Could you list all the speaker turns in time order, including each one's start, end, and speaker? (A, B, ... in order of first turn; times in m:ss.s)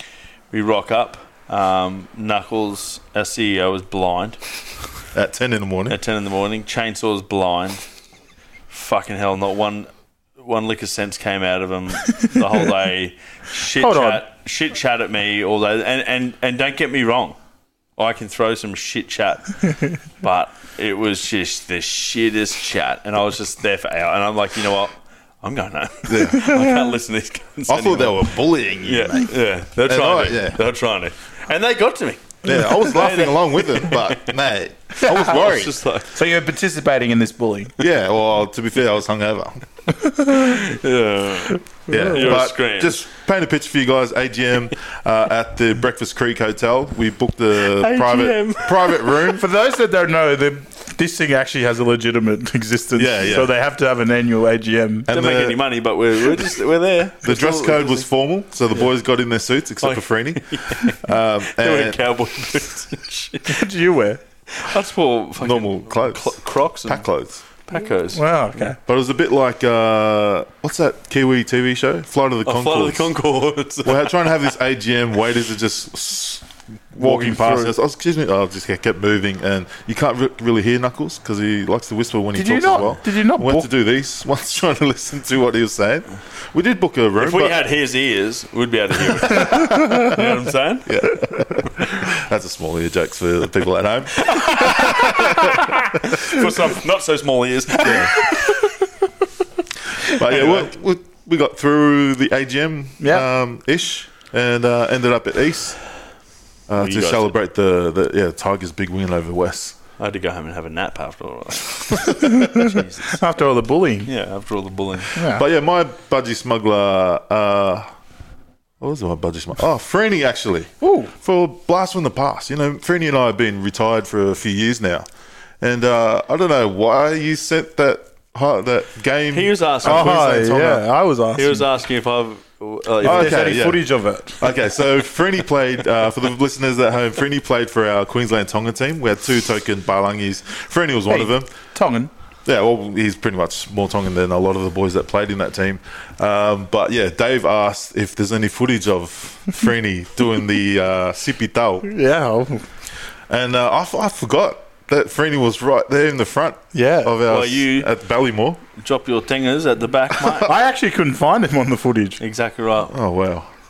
0:00.5-0:04.4 A
0:05.1-0:06.0 B
0:05.9-0:07.9 A
0:08.7-0:17.4 A
0:13.8-0:14.2 C
0:18.0-0:34.3 A
0:26.1-0:26.6 B
0:26.4-0:26.7 C
0:27.7-0:30.6 B
0:32.4-0:35.8 B
0:35.0-0:36.1 A
0:36.1-0:37.7 C
0:37.8-0:39.6 B
0:40.3-0:43.0 A
0:41.9-0:49.4 B
0:41.9-0:42.4 C
0:47.6-0:49.4 A
0:49.3-0:55.1 C
0:53.0-0:53.5 B
0:55.1-0:55.6 B
0:55.1-0:58.1 A
0:57.2-1:02.0 B
0:59.8-1:03.6 A
1:03.5-1:04.2 C
1:04.5-1:07.1 A
1:05.4-1:07.4 B
1:07.7-1:08.7 A
1:08.1-1:08.8 C
1:08.9-1:13.1 B
1:12.4-1:14.5 A
1:13.8-1:27.6 B
1:17.0-1:17.7 C
1:22.4-1:23.7 C
1:27.2-1:32.1 A
1:30.9-1:35.6 B
1:34.2-1:38.7 A
1:37.8-1:38.1 B
1:40.1-1:45.8 B
1:40.2-1:40.7 A
1:43.0-1:43.3 C
1:46.7-1:49.8 B
1:46.8-1:47.3 A
1:50.0-1:53.2 A
1:52.2-1:54.1 C
1:54.1-1:55.2 A
1:55.2-1:55.4 C
1:55.3-1:57.9 B
1:58.8-2:05.1 B
2:00.8-2:01.1 C
2:05.6-2:10.8 B
2:09.3-2:10.2 A
2:09.8-2:11.7 C
2:11.4-2:13.6 A
2:13.0-2:13.8 B
2:13.0-2:14.4 C
2:14.3-2:21.5 B
2:21.1-2:22.1 C
2:22.4-2:31.9 B
2:31.8-2:32.7 C
2:33.3-2:38.6 B
2:36.7-2:37.2 C
2:37.3-2:37.9 A
2:38.8-2:40.5 A
2:40.4-2:42.2 C
2:42.2-2:42.9 A
2:42.9-2:43.5 B